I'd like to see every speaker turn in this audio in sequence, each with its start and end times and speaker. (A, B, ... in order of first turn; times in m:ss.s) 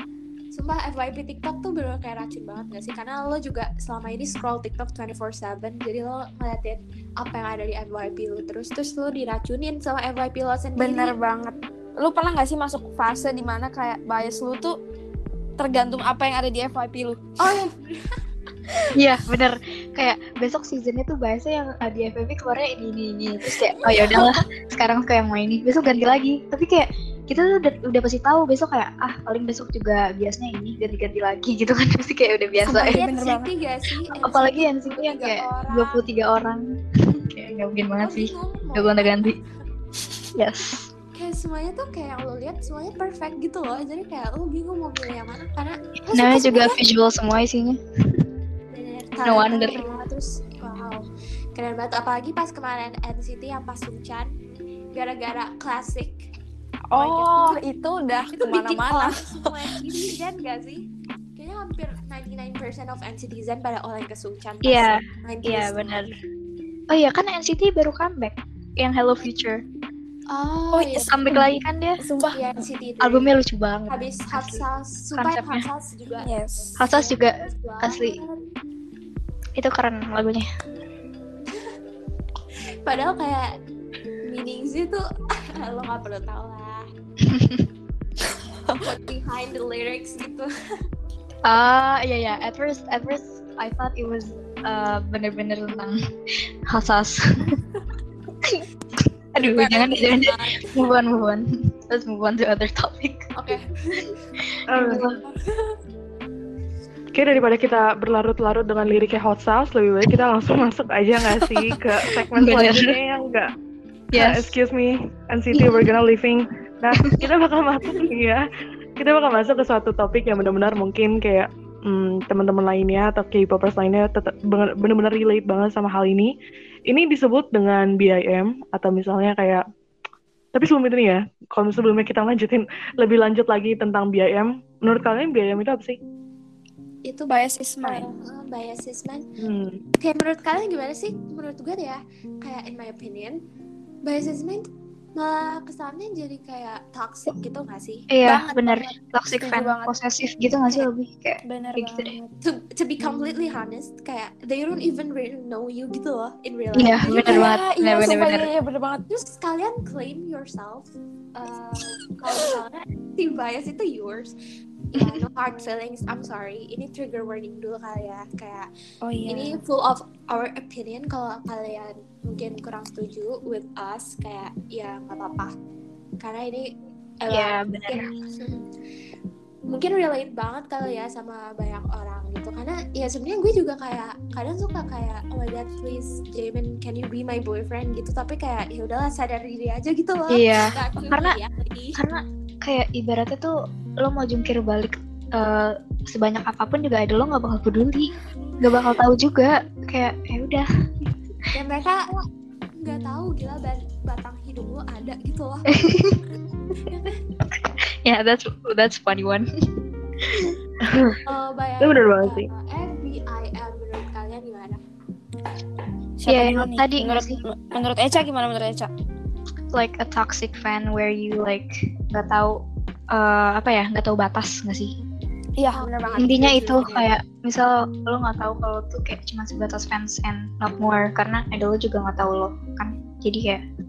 0:00.5-0:11.1 A
0:10.8-0:14.8 B
0:15.6-0:17.2 B
0:17.4-0:18.2 A
0:18.9-0:33.0 C
0:23.9-0:24.3 A
0:32.6-0:33.5 B
0:32.7-0:36.0 A
0:34.2-0:39.4 C
0:38.0-0:39.4 A
0:40.4-0:40.9 C
0:41.2-0:46.8 A
0:46.1-0:47.8 C
0:48.7-0:54.3 A
0:49.2-0:49.9 C
0:54.9-0:56.2 A
0:56.9-0:59.8 B
0:57.0-0:57.6 A
0:58.3-1:00.8 A
1:01.4-1:06.2 A
1:04.6-1:06.1 C
1:06.9-1:09.6 C
1:10.3-1:11.4 A
1:10.7-1:12.4 B
1:10.9-1:12.0 C
1:12.3-1:13.3 A
1:13.0-1:14.6 C
1:13.9-1:16.3 A
1:15.1-1:15.7 C
1:16.2-1:16.7 B
1:16.8-1:18.2 C
1:16.8-1:18.4 A
1:19.6-1:20.5 C
1:22.8-1:23.5 A
1:24.3-1:25.0 A
1:25.5-1:26.8 A
1:27.2-1:27.6 C
1:28.8-1:30.5 A
1:31.4-1:36.0 C
1:36.7-1:37.6 C
1:38.4-1:43.3 C
1:39.4-1:40.7 A
1:43.3-1:44.2 A
1:44.5-1:45.2 C
1:44.7-1:45.1 D
1:45.2-1:45.7 A
1:47.1-1:53.5 D
1:51.4-1:51.8 C
1:52.3-1:53.0 C
1:54.1-1:54.5 C
1:54.1-1:58.5 D
1:55.5-1:55.9 C
1:56.9-1:57.2 C
1:59.0-2:06.3 D
2:06.9-2:09.6 D
2:10.5-2:16.0 D
2:17.1-2:18.0 B
2:17.8-2:19.2 A
2:19.4-2:19.8 D
2:20.0-2:23.4 A
2:24.0-2:24.6 A
2:25.2-2:28.1 A
2:28.1-2:32.1 C
2:28.2-2:29.9 B
2:31.4-2:32.3 B
2:32.4-2:37.6 A
2:36.8-2:38.5 C
2:37.1-2:39.0 B
2:39.1-2:44.3 A
2:44.9-2:48.7 A
2:49.0-2:49.6 B
2:49.3-2:55.5 A
2:56.2-2:56.7 A
2:57.2-2:58.6 A
2:57.3-2:58.1 C
2:59.7-3:12.0 A
3:10.3-3:11.4 C
3:12.0-3:20.6 C
3:21.5-3:22.1 A
3:22.8-3:26.0 A
3:25.8-3:26.2 C
3:26.9-3:27.2 A
3:27.5-3:29.4 C
3:30.2-3:30.6 C
3:30.8-3:31.2 D
3:31.2-3:34.8 A
3:31.8-3:32.5 D
3:36.2-3:38.9 B
3:36.3-3:37.4 C
3:39.7-3:44.9 C
3:45.6-3:47.1 B
3:45.7-3:46.8 A
3:46.2-3:53.6 C